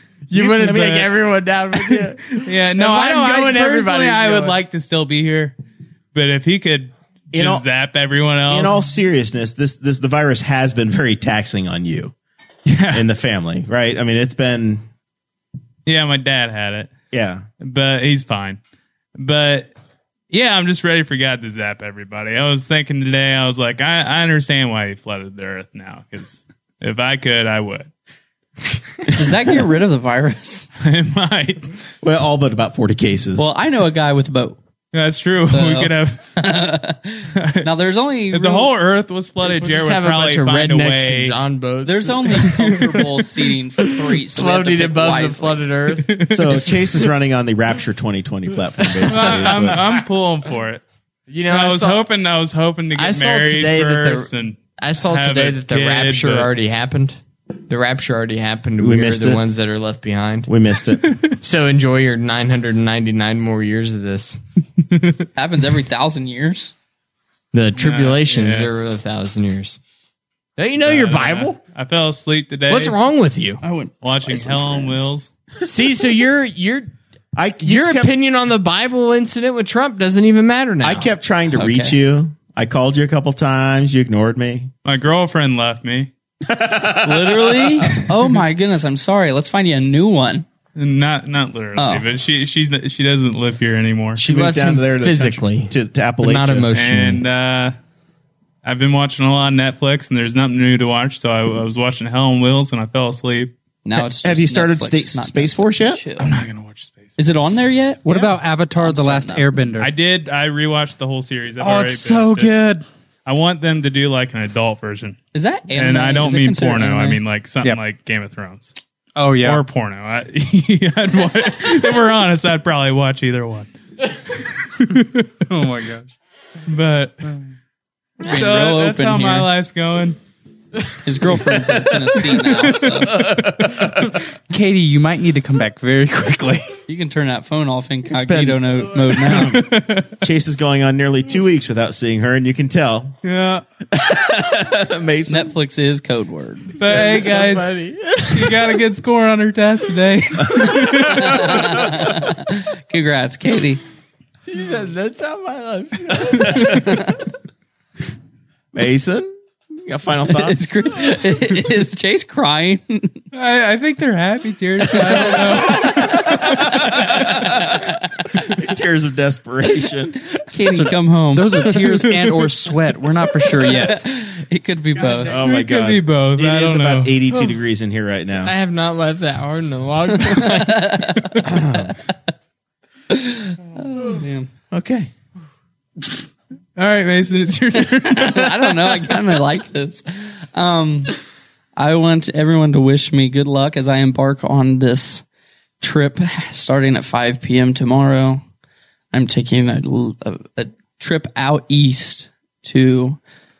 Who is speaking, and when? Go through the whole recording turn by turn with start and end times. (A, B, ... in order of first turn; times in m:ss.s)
0:00.3-0:04.6 A
0:00.3-0:01.1 B
0:00.6-0:01.0 C
0:01.8-0:05.5 C
0:06.1-0:08.8 C
0:07.3-0:07.6 B
0:08.5-0:12.1 B
0:12.6-0:13.0 C
0:12.9-0:14.8 B
0:15.8-0:16.9 C
0:17.1-0:17.4 B
0:17.6-0:18.6 C
0:19.2-0:19.7 C
0:20.3-0:27.9 C
0:29.1-0:30.7 D
0:30.8-0:31.8 C
0:32.0-0:33.5 B
0:33.4-0:34.6 D
0:34.9-0:36.4 C
0:35.4-0:38.7 D
0:37.3-0:37.7 C
0:38.3-0:41.3 C
0:39.4-0:42.7 A
0:41.8-0:45.6 D
0:44.3-0:46.6 A
0:46.0-0:46.9 C
0:46.3-0:49.8 B
0:48.8-0:49.8 A
0:49.0-0:50.8 C
0:51.3-0:52.0 A
0:51.5-0:56.5 C
0:52.9-1:00.5 A
0:58.8-0:59.4 B
1:00.5-1:01.1 B
1:01.3-1:04.4 A
1:05.4-1:06.7 D
1:07.5-1:09.8 A
1:07.8-1:08.7 C
1:10.6-1:11.6 A
1:10.8-1:13.0 C
1:12.7-1:13.6 A
1:13.6-1:15.1 D
1:14.0-1:15.3 C
1:15.6-1:16.9 A
1:17.3-1:18.1 B
1:17.6-1:21.1 A
1:20.8-1:24.7 B
1:21.5-1:22.0 D
1:24.8-1:26.1 C
1:26.4-1:28.0 B
1:27.0-1:30.5 D
1:30.7-1:34.2 C
1:31.8-1:32.0 D
1:34.2-1:36.7 B
1:34.2-1:37.2 A
1:36.7-1:37.7 C
1:38.6-1:43.5 C
1:43.8-1:46.3 D
1:44.0-1:46.0 B
1:46.2-1:47.5 C
1:47.2-1:48.1 D
1:48.0-1:49.9 E
1:48.8-1:49.5 D
1:49.8-1:52.6 C
1:51.6-1:52.8 E
1:53.2-1:55.2 C
1:55.3-1:57.2 D
1:55.7-1:58.7 C
1:59.2-1:59.6 E
1:59.4-2:03.7 C
2:04.3-2:05.2 C
2:05.5-2:06.1 E
2:06.7-2:07.3 C
2:08.2-2:09.5 D
2:08.2-2:10.2 C
2:11.0-2:13.1 D
2:12.3-2:13.5 C
2:13.3-2:13.9 B
2:14.5-2:16.7 E
2:16.9-2:19.6 D
2:18.1-2:23.2 B
2:19.2-2:20.2 C
2:23.2-2:23.6 C
2:23.9-2:25.5 B
2:25.3-2:26.8 D
2:26.8-2:27.7 C
2:26.8-2:28.7 A
2:28.3-2:31.8 C
2:30.5-2:32.0 B
2:31.0-2:33.8 D
2:34.5-2:37.0 A
2:36.5-2:37.2 D
2:38.7-2:40.7 B
2:40.3-2:43.2 D
2:43.3-2:47.5 C
2:44.9-2:45.4 D
2:45.7-2:47.7 B
2:48.3-2:50.2 B
2:50.4-2:52.0 D
2:50.7-2:54.0 E
2:51.7-2:52.3 C
2:53.4-2:55.4 D
2:55.2-2:58.5 B
2:55.3-2:57.2 C
2:58.4-3:01.2 A
3:00.2-3:01.5 D
3:01.4-3:02.0 B
3:03.1-3:04.5 D
3:04.7-3:05.1 B
3:06.8-3:09.2 C
3:07.7-3:11.2 D
3:11.8-3:15.2 D
3:15.8-3:18.4 D
3:19.1-3:23.2 D